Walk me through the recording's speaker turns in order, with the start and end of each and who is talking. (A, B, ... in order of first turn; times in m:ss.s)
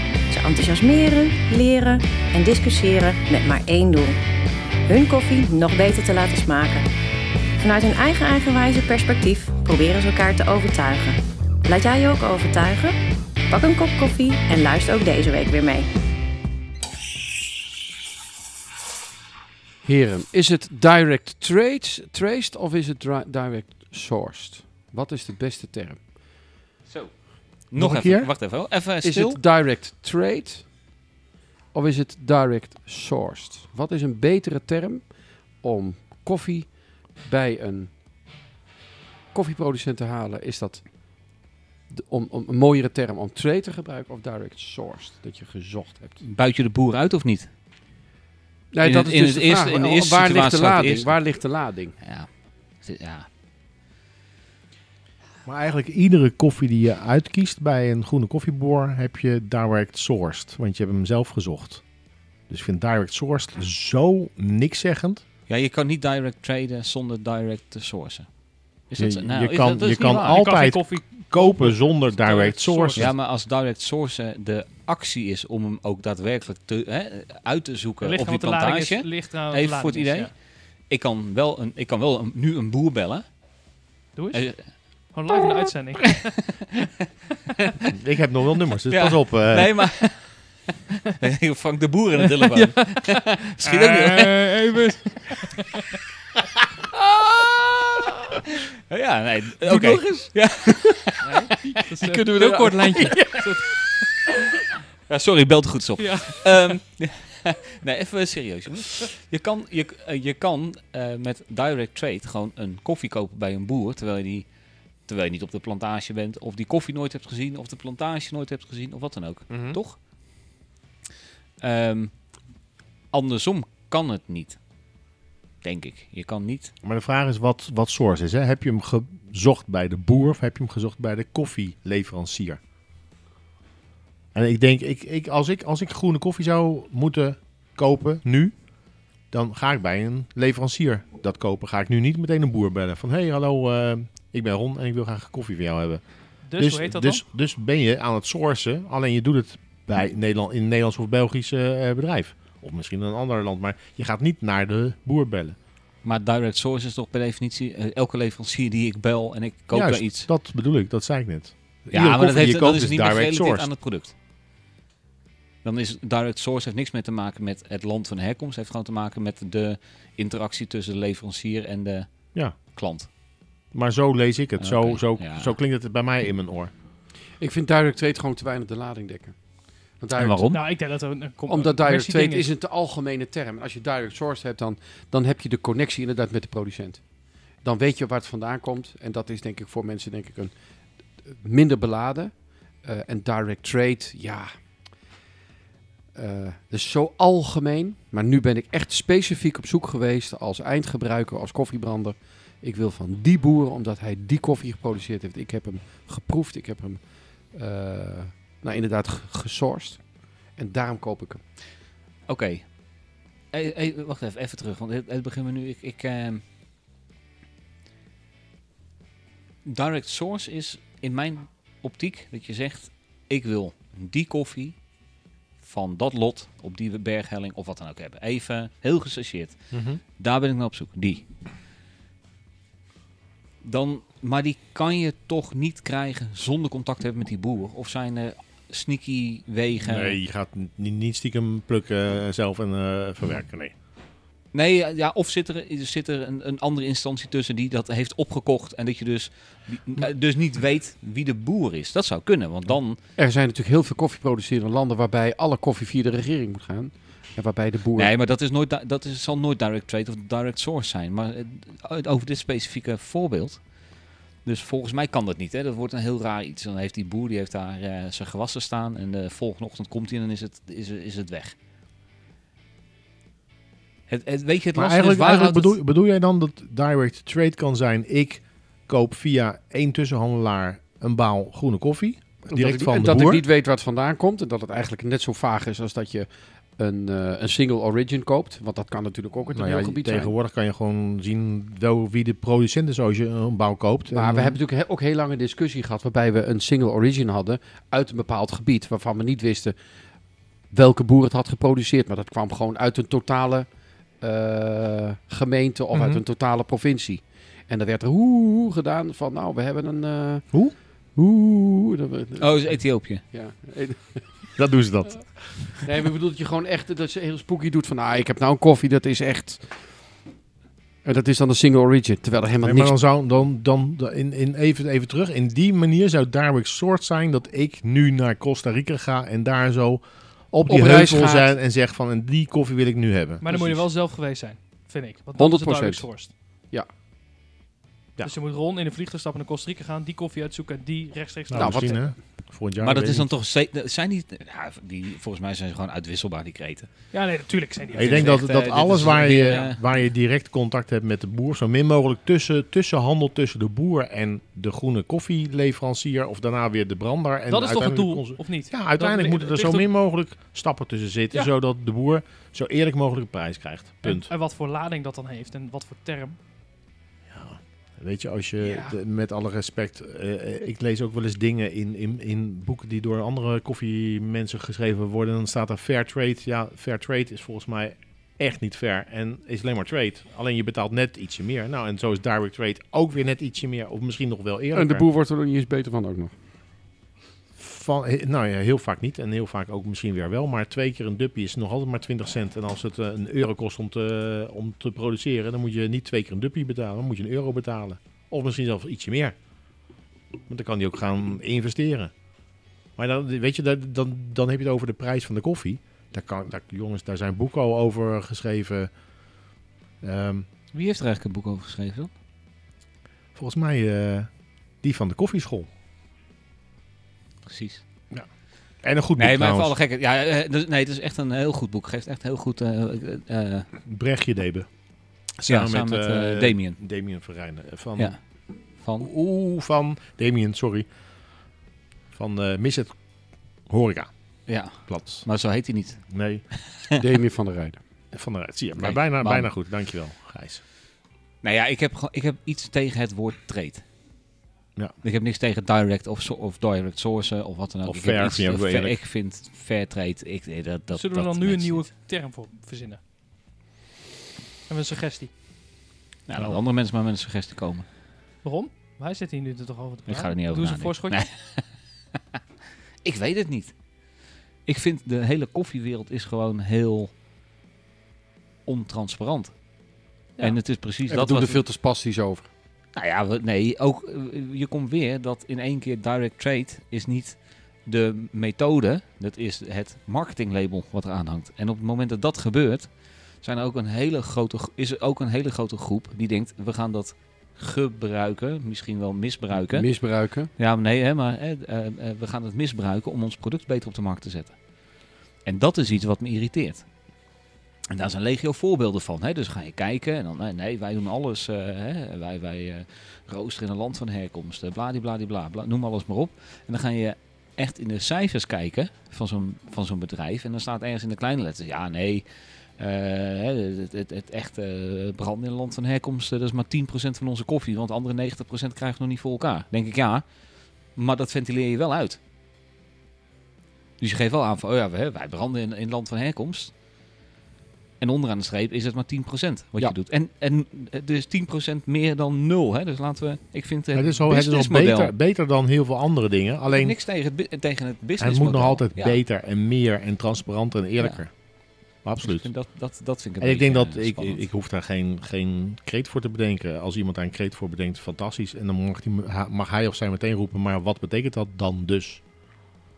0:00.3-0:04.2 A
0:04.8-0:06.8 A
0:07.6-0:13.0 A
0:13.5-0:15.9 A
0:19.8-0:26.1 B
0:26.9-0:29.4 C
0:27.7-0:28.3 D
0:29.0-0:30.8 B
0:31.7-0:37.9 B
0:39.3-0:40.9 B
0:41.9-0:46.2 B
0:46.2-0:47.5 C
0:48.7-0:52.0 B
0:48.8-0:51.2 C
0:52.0-0:52.3 C
0:52.8-0:53.3 C
0:55.4-1:01.8 D
1:02.5-1:05.2 D
1:05.5-1:08.3 C
1:08.9-1:10.5 C
1:09.0-1:13.1 D
1:10.0-1:13.1 E
1:13.0-1:23.2 C
1:18.0-1:20.3 E
1:24.2-1:26.4 E
1:24.3-1:25.1 C
1:26.0-1:26.6 C
1:27.9-1:29.8 D
1:28.8-1:30.6 C
1:31.2-1:34.7 C
1:32.5-1:35.8 E
1:38.9-1:41.4 C
1:39.8-1:40.2 E
1:41.2-1:43.7 E
1:42.0-1:43.5 B
1:45.1-1:54.4 C
1:46.0-1:46.5 E
1:55.1-2:00.0 C
1:59.5-1:59.8 D
2:01.6-2:02.2 C
2:03.1-2:04.6 C
2:05.6-2:06.7 C
2:06.8-2:12.6 D
2:14.3-2:18.5 D
2:19.3-2:26.0 D
2:26.4-2:27.2 E
2:26.6-2:35.6 D
2:36.0-2:40.3 C
2:39.7-2:43.7 D
2:41.9-2:44.1 C
2:45.6-2:53.1 C
2:53.7-2:56.7 D
2:54.6-2:55.5 C
2:57.4-3:00.6 B
3:00.1-3:00.6 C
3:00.5-3:02.5 E
3:01.5-3:07.1 B
3:07.6-3:10.5 B
3:11.2-3:14.5 B
3:16.1-3:31.4 B
3:32.3-3:32.7 C
3:33.5-3:36.4 C
3:39.6-3:44.8 C
3:45.6-3:49.6 C
3:49.7-3:50.0 D
3:50.2-3:51.2 C
3:53.6-4:00.2 C
3:59.8-4:03.7 D
4:04.5-4:13.0 C
4:13.2-4:18.1 B
4:18.0-4:23.6 C
4:24.4-4:31.5 C
4:34.1-4:35.7 C
4:34.7-4:43.4 D
4:42.5-4:50.3 B
4:49.5-4:54.6 D
4:54.1-4:59.7 B
5:00.7-5:03.7 B
5:04.2-5:14.5 B
5:05.9-5:06.2 D
5:12.4-5:13.2 C
5:14.6-5:15.7 D
5:15.7-5:19.8 B
5:21.0-5:23.0 B
5:22.6-5:33.7 D
5:30.7-5:31.5 B
5:33.4-5:36.3 E
5:35.4-5:36.1 B
5:38.2-5:42.0 E
5:41.5-5:43.3 D
5:41.5-5:42.0 B
5:42.8-5:47.0 C
5:47.1-5:48.8 E
5:47.9-6:04.3 D
5:47.9-5:49.8 C
5:57.5-5:59.9 E
6:04.0-6:06.4 E
6:07.3-6:25.0 D
6:08.6-6:09.0 E
6:24.7-6:26.3 B
6:27.6-6:39.4 D
6:40.5-6:42.1 D
6:43.0-6:48.9 D
6:50.0-6:50.5 D
6:50.7-6:52.1 C
6:53.3-6:54.3 D
6:54.8-6:55.7 D
6:57.4-6:57.8 C
6:58.8-6:59.7 D
6:59.2-7:03.7 C
7:03.8-7:04.7 D
7:05.4-7:08.2 D
7:05.5-7:06.8 C
7:08.8-7:09.1 C
7:09.0-7:10.9 D
7:12.1-7:13.0 D
7:13.7-7:14.1 D
7:14.5-7:17.0 C
7:14.8-7:15.2 D
7:16.1-7:16.4 D
7:17.0-7:17.8 B
7:18.1-7:20.6 D
7:18.8-7:19.5 C
7:21.4-7:23.8 C
7:25.0-7:31.9 C
7:27.8-7:29.0 D
7:30.9-7:33.0 E
7:34.7-7:35.3 E
7:36.3-7:37.9 C
7:38.4-7:41.2 E
7:40.1-7:41.7 C
7:43.0-7:43.7 C
7:44.6-7:47.1 C
7:48.6-7:49.5 C
7:50.4-7:51.6 C
7:51.1-7:52.5 B
7:52.9-8:09.9 C
8:09.7-8:10.5 B
8:10.6-8:14.6 C
8:15.4-8:16.8 C
8:17.9-8:32.2 C
8:32.8-8:40.2 C
8:40.9-8:42.2 C
8:44.0-8:46.7 C
8:48.0-8:55.1 C
8:53.9-8:57.0 D
8:56.7-8:59.2 C
8:58.2-9:01.3 D
9:02.0-9:02.5 D
9:02.2-9:04.4 C
9:03.4-9:12.2 D